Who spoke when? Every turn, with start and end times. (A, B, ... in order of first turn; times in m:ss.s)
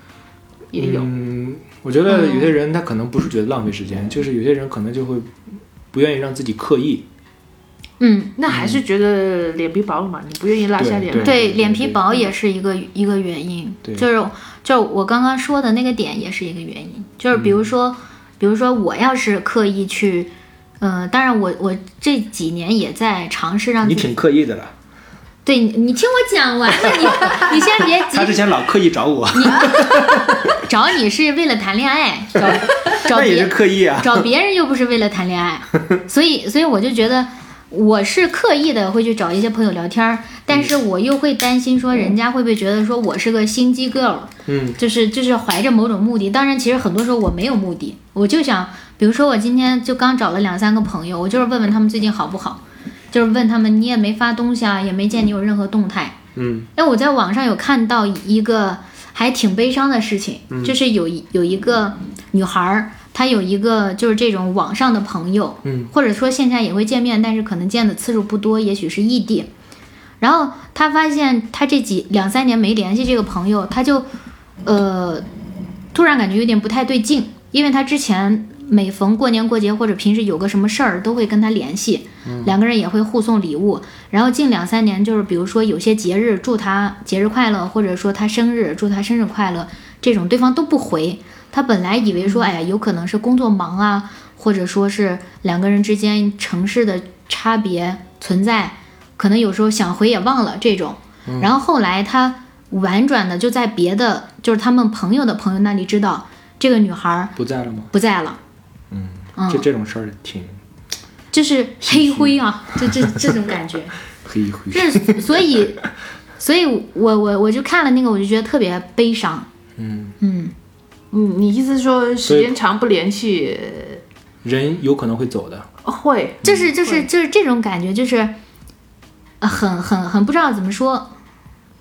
0:00.7-0:01.1 A
0:00.7-0:07.1 B
0:02.1-0:02.5 C
0:08.0-0:08.3 C
0:08.4-0:11.4 A
0:08.5-0:08.8 B
0:10.8-0:12.0 B
0:11.2-0:24.2 C
0:17.3-0:17.7 B
0:23.8-0:24.7 B
0:25.4-0:28.5 C
0:27.0-0:30.4 B
0:29.3-0:56.2 C
0:32.4-0:34.3 B
0:44.4-0:44.8 B
0:56.3-0:56.7 B
0:56.8-1:09.5 C
1:00.5-1:00.8 B
1:05.6-1:05.9 B
1:10.2-1:14.1 C
1:14.6-1:15.2 C
1:15.9-1:47.3 C
1:22.2-1:22.5 B
1:41.2-1:41.5 B
1:47.4-1:47.9 B
1:47.9-1:48.4 C
1:48.9-1:50.6 B
1:49.4-1:49.6 C
1:51.3-1:54.0 C
1:51.8-1:53.2 B
1:54.2-1:55.7 B
1:54.7-1:55.8 C
1:56.4-1:59.5 C
1:59.8-2:00.1 B
2:00.2-2:00.5 C
2:01.1-2:04.0 A
2:02.2-2:02.6 B
2:04.4-2:05.7 B
2:05.8-2:07.1 A
2:06.4-2:08.3 C
2:09.4-2:11.1 C